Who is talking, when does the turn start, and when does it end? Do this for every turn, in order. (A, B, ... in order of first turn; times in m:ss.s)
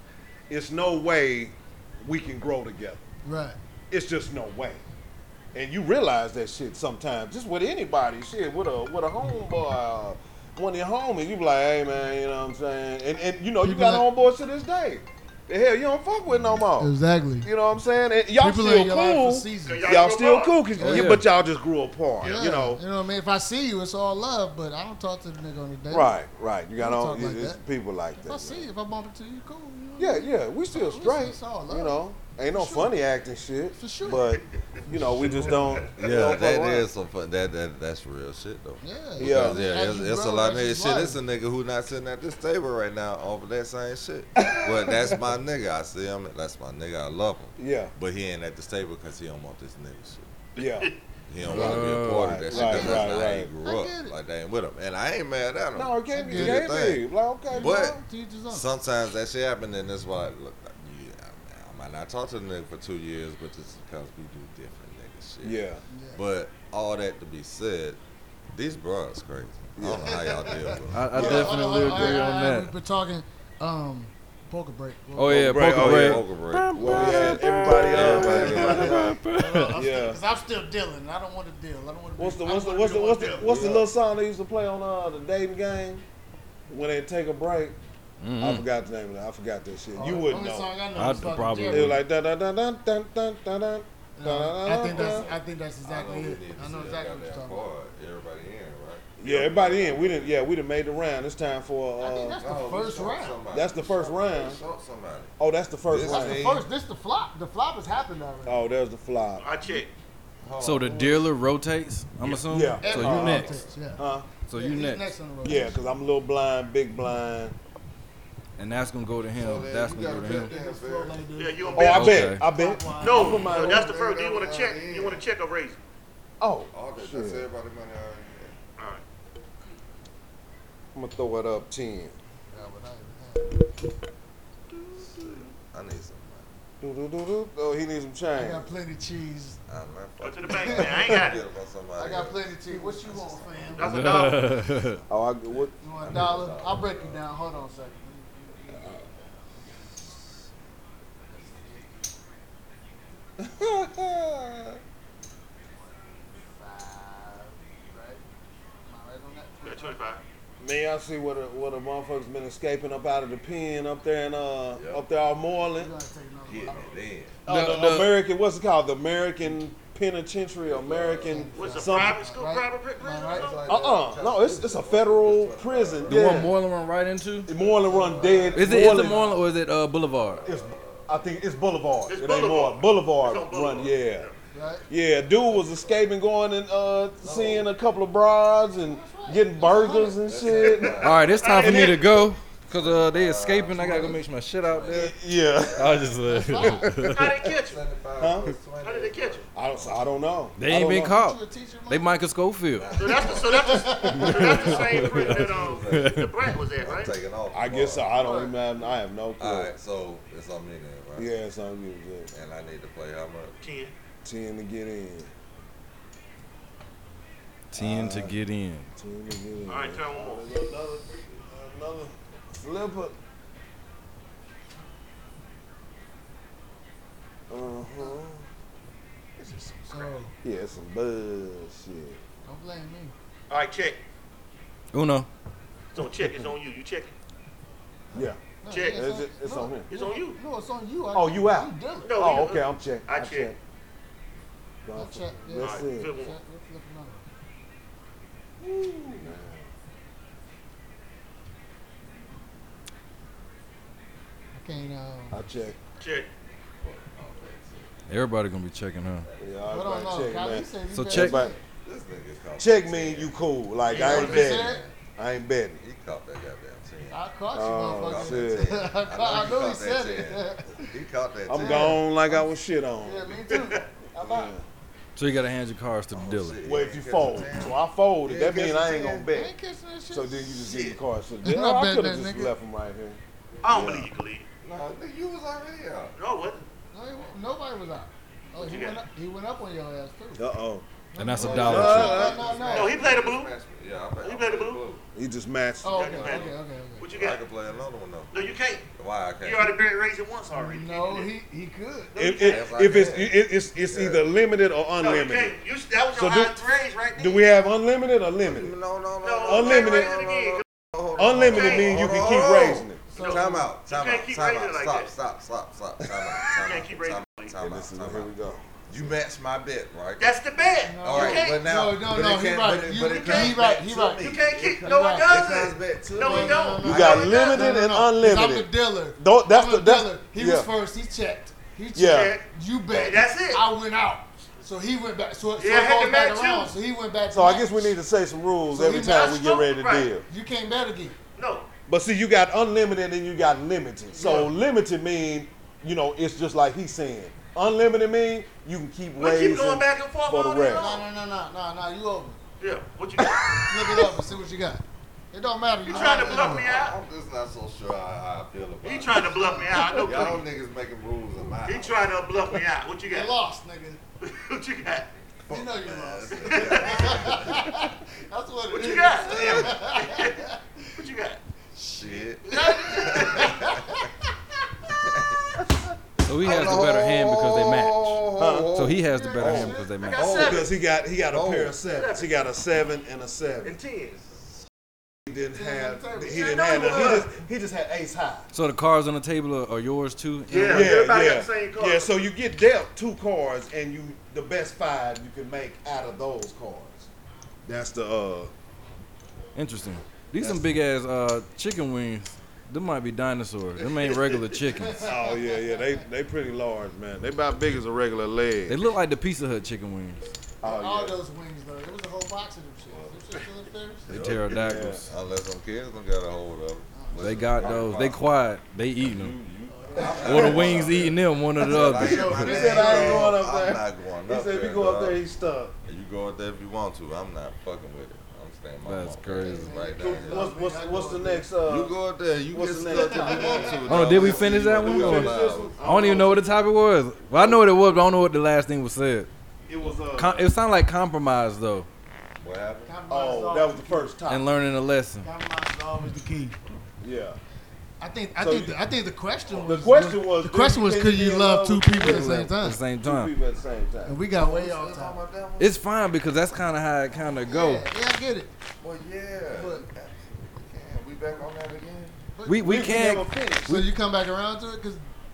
0:00.5-0:03.0 A
0:03.2-0:03.6 B
0:03.9-0:04.8 A
0:05.5-0:22.8 A
0:13.6-0:14.1 B
0:16.8-0:17.5 B
0:18.4-0:20.0 B
0:19.6-0:20.6 C
0:20.8-0:21.2 B
0:20.8-0:21.2 D
0:22.2-0:22.5 C
0:22.2-0:26.1 B
0:25.9-0:28.6 A
0:26.8-0:27.6 B
0:28.2-0:33.0 B
0:30.0-0:36.8 A
0:33.7-0:35.9 B
0:35.9-0:50.3 E
0:38.8-0:41.2 B
0:39.2-0:39.6 A
0:44.4-0:45.2 A
0:47.6-0:47.9 A
0:50.6-0:50.9 A
0:50.6-0:51.0 C
0:51.3-1:08.0 E
0:51.4-0:53.0 D
0:51.5-0:53.5 A
0:52.5-0:54.2 B
0:55.7-0:57.9 A
0:56.1-0:56.6 B
0:57.5-0:58.7 B
1:05.4-1:05.8 A
1:05.9-1:06.2 B
1:08.5-1:11.5 E
1:09.8-1:10.1 A
1:10.0-1:15.7 B
1:10.9-1:12.7 D
1:11.1-1:11.9 A
1:15.2-1:19.8 D
1:15.4-1:19.1 A
1:15.6-1:19.1 E
1:17.0-1:23.6 B
1:19.7-1:20.2 A
1:22.2-1:26.0 A
1:23.4-1:23.8 E
1:26.7-1:27.8 A
1:28.2-1:28.6 D
1:28.4-1:30.7 A
1:29.9-1:32.0 B
1:30.9-1:32.0 D
1:31.7-1:35.3 A
1:34.2-1:37.7 B
1:34.8-1:40.4 E
1:39.2-1:42.4 A
1:42.0-1:43.4 B
1:42.4-1:45.3 E
1:43.5-1:44.6 A
1:45.4-1:46.6 A
1:45.9-1:46.6 E
1:46.0-1:48.6 B
1:48.4-1:49.4 A
1:49.4-1:49.9 C
1:50.4-1:51.3 E
1:50.6-1:53.5 D
1:52.4-1:54.3 A
1:52.8-1:54.0 B
1:53.1-1:53.7 E
1:54.4-1:55.1 D
1:54.5-1:55.8 B
1:55.4-1:57.5 A
1:58.6-2:00.5 D
1:59.3-2:01.2 E
2:00.0-2:03.5 B
2:01.4-2:02.2 C
2:01.8-2:04.0 A
2:01.9-2:02.4 D
2:03.0-2:05.8 C
2:03.4-2:05.2 E
2:06.4-2:07.4 A
2:06.7-2:08.5 E
2:08.8-2:09.0 C
2:10.9-2:12.2 A
2:12.5-2:13.6 B
2:15.0-2:16.5 E
2:16.8-2:18.7 A
2:18.3-2:19.6 B
2:19.7-2:23.8 E
2:20.2-2:21.4 C
2:20.6-2:21.2 B
2:22.0-2:24.1 B
2:23.8-2:24.6 C
2:23.8-2:25.0 D
2:25.1-2:25.7 A
2:25.8-2:29.3 B
2:26.0-2:27.2 E
2:28.7-2:29.0 A
2:31.3-2:32.1 B
2:33.4-2:34.8 A
2:36.0-2:38.2 B
2:38.8-2:40.0 B
2:39.6-2:40.2 C
2:40.6-2:45.9 A
2:44.7-2:45.0 E
2:45.7-2:46.9 B
2:46.5-2:47.4 E
2:47.5-2:48.2 D
2:47.5-2:52.2 A
2:50.6-2:51.7 E
2:51.2-2:53.5 B
2:51.5-2:53.7 C
2:53.2-2:56.5 E
2:53.7-2:56.5 A
2:56.0-2:57.5 D
2:57.5-2:59.2 A
2:57.5-2:58.7 E
2:58.5-3:00.4 D
2:58.6-2:59.5 B
3:00.3-3:01.2 E
3:00.4-3:04.3 A
3:02.1-3:04.4 C
3:04.5-3:04.8 B
3:04.9-3:12.3 A
3:05.4-3:06.0 E
3:07.2-3:07.7 E
3:08.8-3:10.7 B
3:09.9-3:11.8 E
3:11.0-3:15.1 D
3:11.3-3:12.0 C
3:12.7-3:16.2 E
3:14.9-3:16.1 A
3:15.7-3:17.2 D
3:16.2-3:16.8 B
3:17.0-3:20.1 E
3:17.1-3:17.8 C
3:18.2-3:18.5 A
3:18.8-3:19.4 C
3:19.5-3:21.1 A
3:20.6-3:22.9 D
3:20.9-3:22.2 B
3:22.7-3:23.9 E
3:23.0-3:27.1 C
3:23.2-3:24.7 B
3:24.1-3:25.3 D
3:24.4-3:26.2 E
3:25.9-3:26.3 D
3:26.8-3:28.1 E
3:27.5-3:29.7 A
3:28.1-3:28.6 B
3:29.4-3:31.3 E
3:31.2-3:32.3 A
3:32.3-3:33.5 E
3:33.6-3:33.9 C
3:34.2-3:35.3 A
3:37.7-3:38.9 D
3:37.7-3:38.3 A
3:39.0-3:43.2 A
3:39.7-3:40.5 C
3:47.5-3:48.4 A
3:49.4-3:49.8 A
3:49.9-3:50.3 B
3:50.4-3:52.2 A
3:52.4-3:53.1 B
3:53.5-3:54.0 C
3:54.9-3:55.3 D
3:55.9-3:57.1 C
3:58.1-3:59.9 A
3:58.6-4:02.3 B
3:58.7-3:59.1 C
3:59.9-4:00.4 C
4:01.1-4:03.6 A
4:02.0-4:03.5 C
4:04.8-4:06.1 A
4:04.9-4:07.2 B
4:05.6-4:06.4 C
4:08.6-4:09.7 A
4:14.5-4:15.4 B
4:15.3-4:15.8 A
4:16.0-4:16.3 C
4:16.8-4:17.9 E
4:18.1-4:19.3 D
4:19.4-4:21.5 A
4:19.7-4:21.6 B
4:20.9-4:21.4 D
4:21.8-4:23.4 E
4:22.6-4:25.8 A
4:23.9-4:24.6 C
4:23.9-4:24.9 B
4:23.9-4:24.9 E
4:25.8-4:27.2 E
4:27.1-4:30.9 B
4:27.5-4:28.7 A
4:28.0-4:32.5 E
4:31.5-4:33.4 A
4:31.6-4:32.0 B
4:33.0-4:33.8 B
4:33.5-4:33.8 C
4:34.2-4:34.5 E
4:34.2-4:34.6 A
4:35.2-4:36.6 D
4:36.1-4:39.3 E
4:36.6-4:39.5 A
4:39.3-4:40.7 B
4:40.1-4:44.1 A
4:41.4-4:42.5 B
4:43.6-4:44.4 C
4:44.6-4:46.1 E
4:46.2-4:46.6 C
4:46.9-4:50.4 B
4:48.6-4:49.0 C
4:50.4-4:50.8 A
4:51.1-4:53.0 B
4:51.2-4:52.3 D
4:51.4-4:52.6 A
4:51.4-4:55.0 E
4:52.7-4:53.5 C
4:54.2-4:54.8 C
4:55.1-4:56.4 A
4:55.8-4:57.0 B
4:55.9-4:57.4 C
4:56.2-4:56.5 E
4:57.1-4:58.4 E
4:58.3-4:58.8 C
4:58.9-4:59.7 E
4:59.4-5:01.3 C
5:00.5-5:02.2 B
5:02.1-5:02.7 C
5:02.2-5:05.5 A
5:02.4-5:04.2 E
5:05.0-5:07.5 C
5:06.1-5:06.6 A
5:07.2-5:08.7 A
5:08.4-5:18.3 E
5:09.2-5:10.6 C
5:09.4-5:10.1 A
5:11.2-5:13.0 A
5:11.3-5:12.0 C
5:13.1-5:13.7 B
5:13.2-5:15.1 C
5:16.0-5:16.5 A
5:16.6-5:17.5 C
5:17.6-5:19.1 A
5:18.9-5:20.3 E
5:20.2-5:21.6 C
5:20.8-5:24.3 B
5:21.0-5:27.3 E
5:23.0-5:23.6 C
5:24.2-5:27.7 C
5:24.8-5:25.4 B
5:26.2-5:38.0 B
5:26.8-5:30.7 A
5:31.9-5:32.4 A
5:32.0-5:33.6 C
5:35.6-5:36.7 C
5:37.3-5:40.2 A
5:38.7-5:39.4 B
5:39.0-5:40.1 C
5:40.3-5:41.2 B
5:41.4-5:41.7 C
5:41.9-5:50.9 A
5:44.2-5:44.5 C
5:44.2-5:44.5 B
5:49.2-5:51.1 C
5:50.7-5:52.4 B
5:52.6-5:54.1 C
5:53.6-5:56.7 B
5:55.8-5:57.0 C
5:55.8-6:02.0 E
5:58.8-6:00.4 C
6:01.6-6:03.3 C
6:03.0-6:04.0 B
6:04.2-6:05.1 C
6:05.5-6:07.8 E
6:05.5-6:10.6 B
6:06.4-6:07.2 C
6:08.7-6:10.4 C
6:09.1-6:09.8 E
6:11.0-6:11.4 C
6:11.7-6:14.1 B
6:11.9-6:14.0 E
6:12.4-6:13.6 C
6:15.0-6:20.7 E
6:16.2-6:20.4 D
6:18.4-6:18.7 A
6:19.1-6:20.0 B
6:20.0-6:20.7 C
6:20.3-6:23.8 A
6:21.3-6:21.8 E
6:21.9-6:22.3 C
6:23.6-6:24.2 C
6:25.2-6:28.5 A
6:25.5-6:27.3 B
6:26.3-6:27.3 C
6:28.5-6:31.0 D
6:30.5-6:32.1 C
6:30.5-6:37.1 A
6:37.6-6:38.5 A
6:39.5-6:45.1 D
6:44.7-6:46.0 B
6:45.0-6:48.8 A
6:48.7-6:50.3 D
6:50.6-6:51.2 A
6:50.6-6:54.1 B
6:54.1-6:55.1 D
6:54.1-6:58.2 E
6:54.5-6:55.1 A
6:56.9-6:57.8 B
6:57.2-6:59.3 D
6:59.0-7:05.2 E
6:59.7-7:00.8 B
7:00.0-7:01.2 A
7:00.2-7:02.4 D
7:01.8-7:03.4 B
7:02.0-7:05.7 A
7:05.8-7:10.5 E
7:08.8-7:09.8 D
7:09.4-7:11.5 B
7:09.9-7:11.9 A
7:11.6-7:16.2 E
7:12.5-7:16.5 A
7:12.8-7:14.0 B
7:13.8-7:19.3 D
7:17.4-7:17.7 A
7:19.7-7:20.5 A
7:19.9-7:21.9 D
7:22.4-7:22.9 E
7:22.8-7:24.1 B
7:23.1-7:24.5 A
7:24.3-7:25.3 D
7:25.2-7:26.6 B
7:27.0-7:27.4 A
7:28.0-7:32.8 B
7:28.4-7:28.7 A
7:29.5-7:34.2 A
7:32.0-7:33.4 D
7:34.0-7:35.2 B
7:34.3-7:35.8 E
7:35.6-7:37.9 D
7:37.5-7:38.5 B
7:38.8-7:42.2 E
7:39.5-7:39.8 B
7:42.3-7:42.8 B
7:42.4-7:43.8 D
7:42.6-7:43.8 A
7:43.7-7:45.0 B